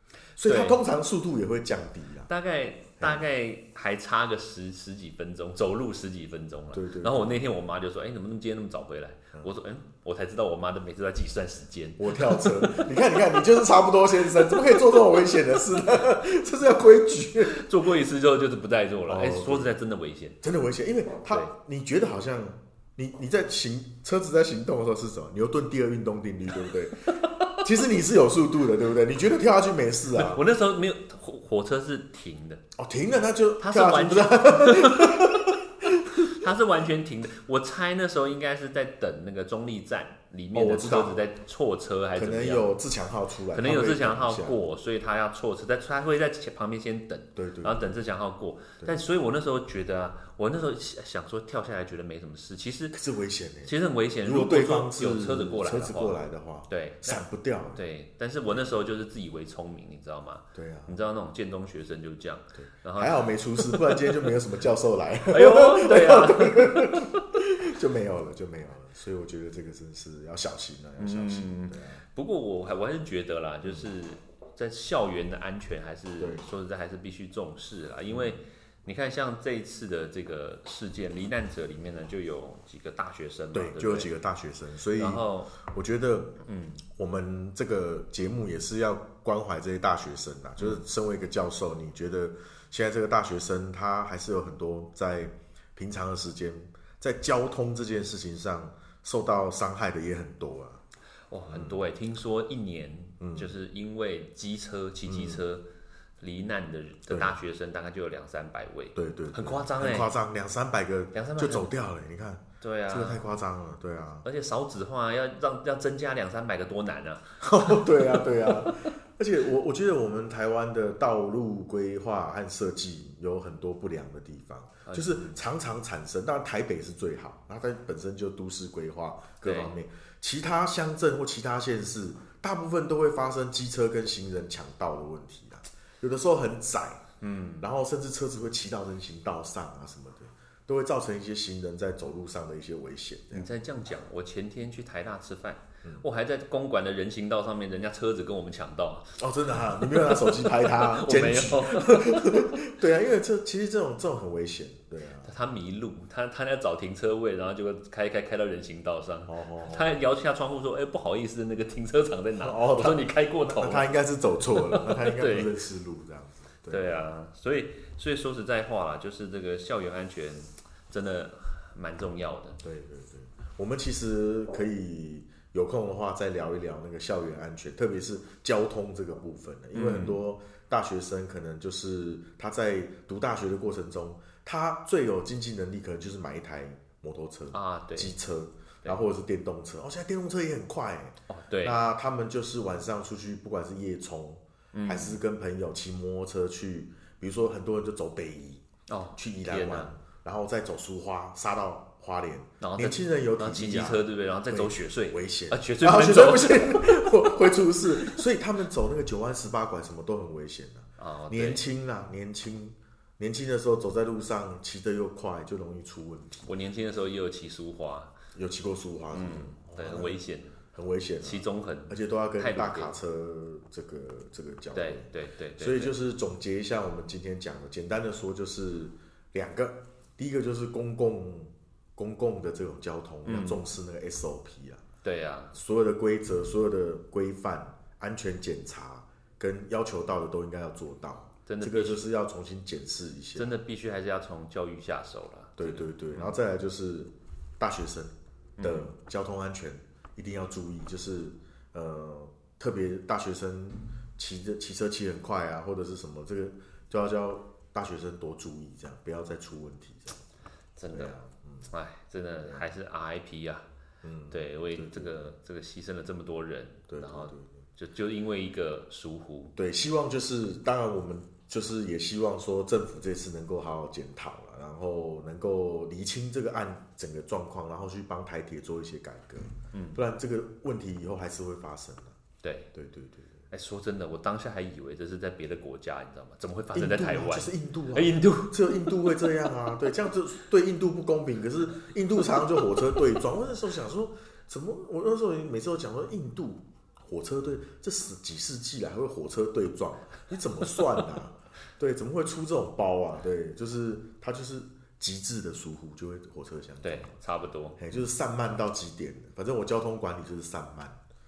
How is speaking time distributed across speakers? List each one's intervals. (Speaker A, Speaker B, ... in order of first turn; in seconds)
Speaker A: 0.4-2.3, 6.7-7.4, 12.0-17.6, 19.1-19.7, 20.4-30.4, 32.8-36.5, 40.5-41.2, 42.1-44.6, 47.4-47.9, 52.9-57.8, 60.5-61.0, 62.6-72.0, 76.2-76.5, 78.1-78.4, 83.5-86.3, 86.9-100.8, 101.5-101.8, 103.2-103.5, 105.0-105.4, 107.1-107.4, 108.9-114.2, 117.4-137.0, 137.6-143.5, 149.2-155.3, 159.3-159.9, 162.4-166.9, 172.6-198.6, 199.2-216.5, 218.3-220.2, 220.7-234.8, 235.5-243.5, 245.6-260.2, 260.9-261.7, 264.0-265.2, 266.9-267.6, 269.6-282.2, 282.7-283.4, 286.7-307.1, 307.8-311.0
Speaker B: 0.4-0.8, 2.3-13.4, 14.4-14.8, 17.4-20.4, 27.2-27.6, 30.1-32.6, 33.6-35.5, 36.1-42.7, 43.5-53.0, 53.6-57.2, 57.7-64.2, 65.3-67.2, 71.0-84.1, 84.9-85.5, 86.4-86.8, 101.3-105.6, 106.2-110.1, 111.1-111.7, 112.6-113.3, 114.2-118.8, 124.8-125.4, 129.4-129.7, 137.2-137.7, 143.3-149.1, 149.7-152.7, 155.2-163.9, 164.4-165.6, 166.7-172.6, 179.7-180.2, 187.5-188.1, 191.3-191.8, 194.7-195.2, 198.9-199.9, 202.6-208.2, 211.0-211.6, 216.4-218.1, 219.1-220.6, 221.2-222.9, 224.7-225.9, 233.2-233.6, 235.0-235.5, 241.5-242.0, 243.3-246.3, 248.6-248.9, 260.8-261.1, 261.7-263.6, 264.3-269.5, 279.7-280.0, 282.4-282.7, 283.5-289.4, 306.8-307.8